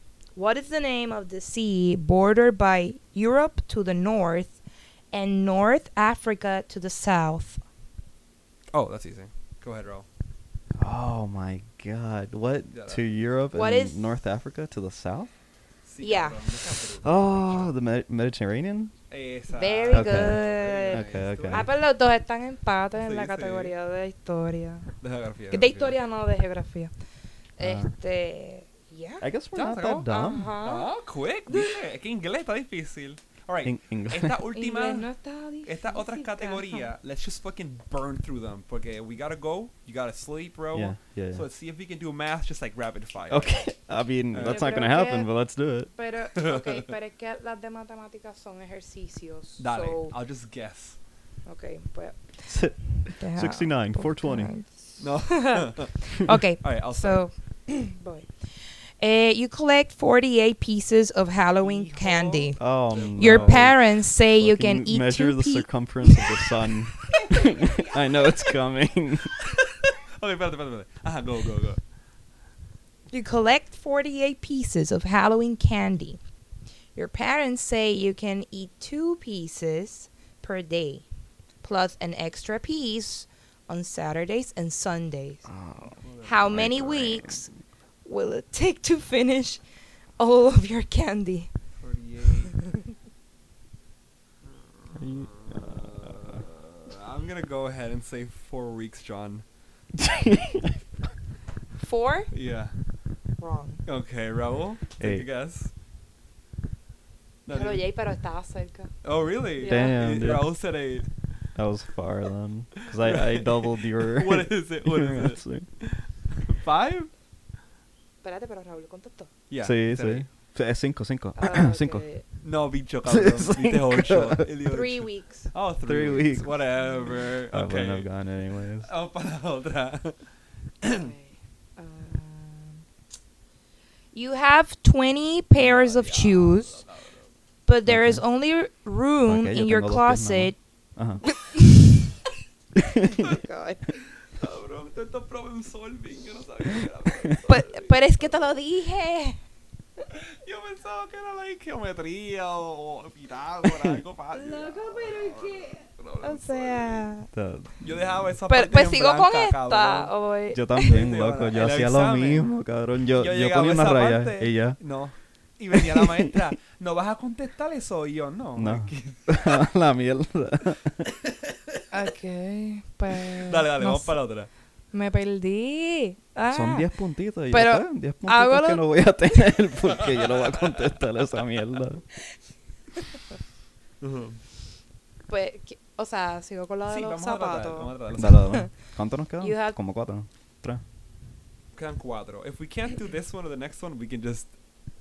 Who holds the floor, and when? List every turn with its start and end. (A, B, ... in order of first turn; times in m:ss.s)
0:00.4-0:04.6 A
0:05.1-0:07.6 A
0:08.7-0:10.0 B
0:10.8-0:15.3 C
0:12.7-0:13.1 B
0:13.5-0:14.1 A
0:15.8-0:17.7 B
0:16.0-0:16.4 A
0:17.0-0:18.9 C
0:19.1-0:21.7 B
0:19.5-0:24.9 A
0:19.9-0:21.7 C
0:23.0-0:23.7 B
0:25.0-0:26.0 B
0:25.5-0:26.9 A
0:27.6-0:29.2 A
0:27.6-0:27.9 C
0:29.2-0:30.6 C
0:29.5-0:30.1 B
0:30.0-0:30.9 A
0:30.6-0:35.1 B
0:31.5-0:31.8 A
0:33.6-0:34.4 C
0:34.5-0:36.9 A
0:35.6-0:43.7 B
0:40.7-0:41.4 C
0:43.3-0:45.9 C
0:44.3-0:44.7 B
0:44.4-0:45.3 A
0:45.9-0:50.2 A
0:46.3-0:46.9 B
0:49.6-0:51.0 B
0:51.4-1:02.6 A
0:52.5-0:54.5 C
0:55.0-0:56.1 B
0:56.6-0:57.2 B
1:01.6-1:03.7 B
1:02.6-1:09.3 C
1:03.2-1:06.5 A
1:07.1-1:08.4 A
1:09.6-1:11.8 B
1:13.1-1:16.2 A
1:16.9-1:21.0 A
1:21.6-1:25.5 A
1:25.5-1:27.5 C
1:26.0-1:26.8 B
1:26.2-1:27.5 A
1:28.0-1:29.6 A
1:30.2-1:31.5 A
1:31.8-1:32.5 B
1:34.8-1:39.4 B
1:35.0-1:36.4 C
1:40.0-1:40.8 C
1:41.8-1:42.3 A
1:42.3-1:42.7 B
1:43.4-1:43.8 A
1:43.8-1:45.7 B
1:45.0-1:45.3 C
1:47.4-1:47.8 B
1:47.5-1:49.0 A
1:49.0-1:51.1 B
1:49.6-1:50.1 A
1:49.6-1:50.5 C
1:51.5-1:55.7 C
1:52.8-1:57.1 B
1:58.2-1:59.3 A
1:59.5-2:00.2 B
1:59.6-2:02.0 C
2:01.4-2:02.2 A
2:02.4-2:08.1 B
2:03.0-2:04.5 C
2:04.6-2:05.5 A
2:05.8-2:06.5 C
2:07.5-2:08.9 C
2:08.8-2:10.2 B
2:10.8-2:11.1 B
2:10.9-2:12.8 A
2:14.1-2:16.8 A
2:15.5-2:17.3 B
2:17.6-2:20.6 A
2:17.8-2:18.2 C
2:19.2-2:21.2 C
2:21.2-2:22.0 A
2:22.9-2:23.2 C
2:23.0-2:23.9 A
2:24.2-2:28.5 B
2:27.4-2:29.4 A
2:30.1-2:37.1 B
2:34.3-2:37.3 A
2:37.3-2:38.4 C
2:37.8-2:40.1 B
2:38.5-2:40.9 A
2:40.5-2:44.8 C
2:40.8-2:42.5 B
2:43.1-2:49.6 B
2:45.7-2:46.3 C
2:48.6-2:51.1 C
2:51.0-2:51.9 B
2:51.9-2:54.2 A
2:53.1-2:54.5 B
2:54.9-2:56.9 A
2:56.5-3:02.0 C
2:57.5-2:59.5 A
3:00.1-3:00.8 B
3:04.0-3:04.4 B
3:05.3-3:08.7 A
3:06.8-3:08.5 B
3:08.2-3:10.8 C
3:09.4-3:09.8 A
3:11.7-3:14.5 B